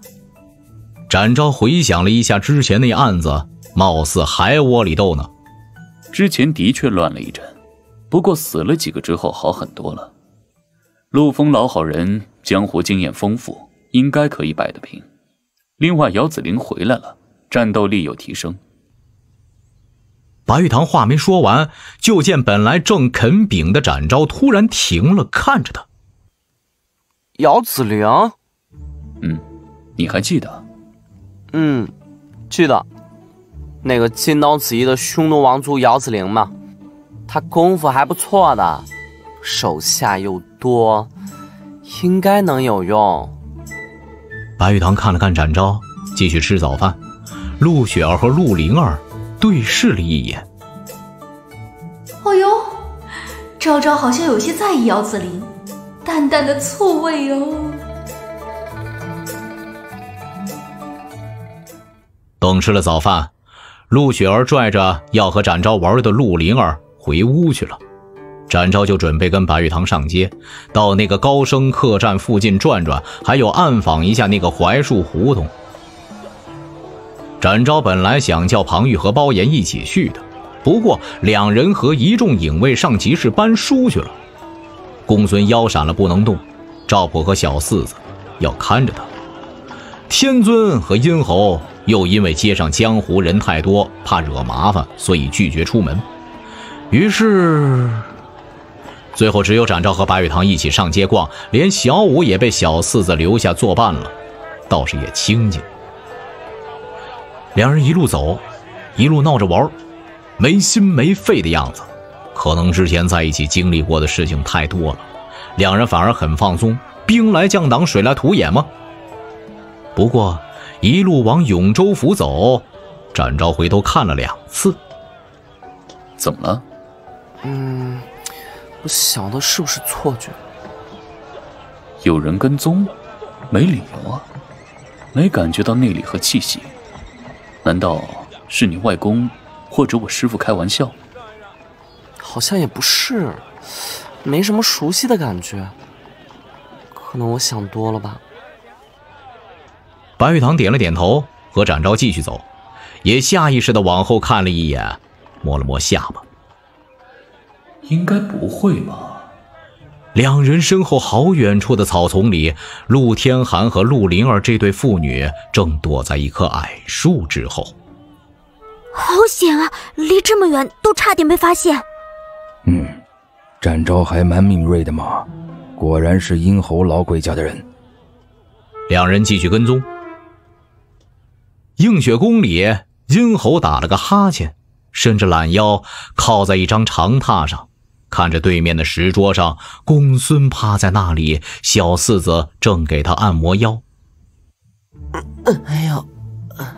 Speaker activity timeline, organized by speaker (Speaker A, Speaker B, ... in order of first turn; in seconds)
Speaker A: 1.1-5.3, 20.5-25.9, 44.6-47.0, 47.6-50.5, 62.4-63.3, 63.9-67.8, 68.5-75.5, 77.4-84.2, 85.1-89.1, 90.1-96.0, 96.9-98.1, 99.1-104.1, 104.7-105.7, 107.5-108.4, 108.9-109.7, 110.4-118.7, 120.0-124.8, 150.2-152.5, 153.0-156.2, 160.1-167.7, 178.9-179.9, 181.8-193.8
Speaker B: 6.1-7.5, 8.1-10.1, 11.1-15.1, 15.8-18.6, 30.0-30.6, 126.2-126.6, 132.0-132.9, 133.5-134.3, 135.1-136.7, 137.6-140.9, 157.8-159.2
Speaker C: 27.4-28.3, 31.5-31.9, 32.5-32.9, 33.8-36.5, 37.3-38.9, 39.4-41.1, 41.9-43.3, 127.4-128.1, 128.8-130.4, 142.2-143.5, 144.2-145.8, 146.9-148.2
Speaker D: 52.2-52.7, 53.6-55.5, 56.0-57.8
Speaker E: 168.9-171.8
Speaker F: 173.7-175.2, 175.8-177.6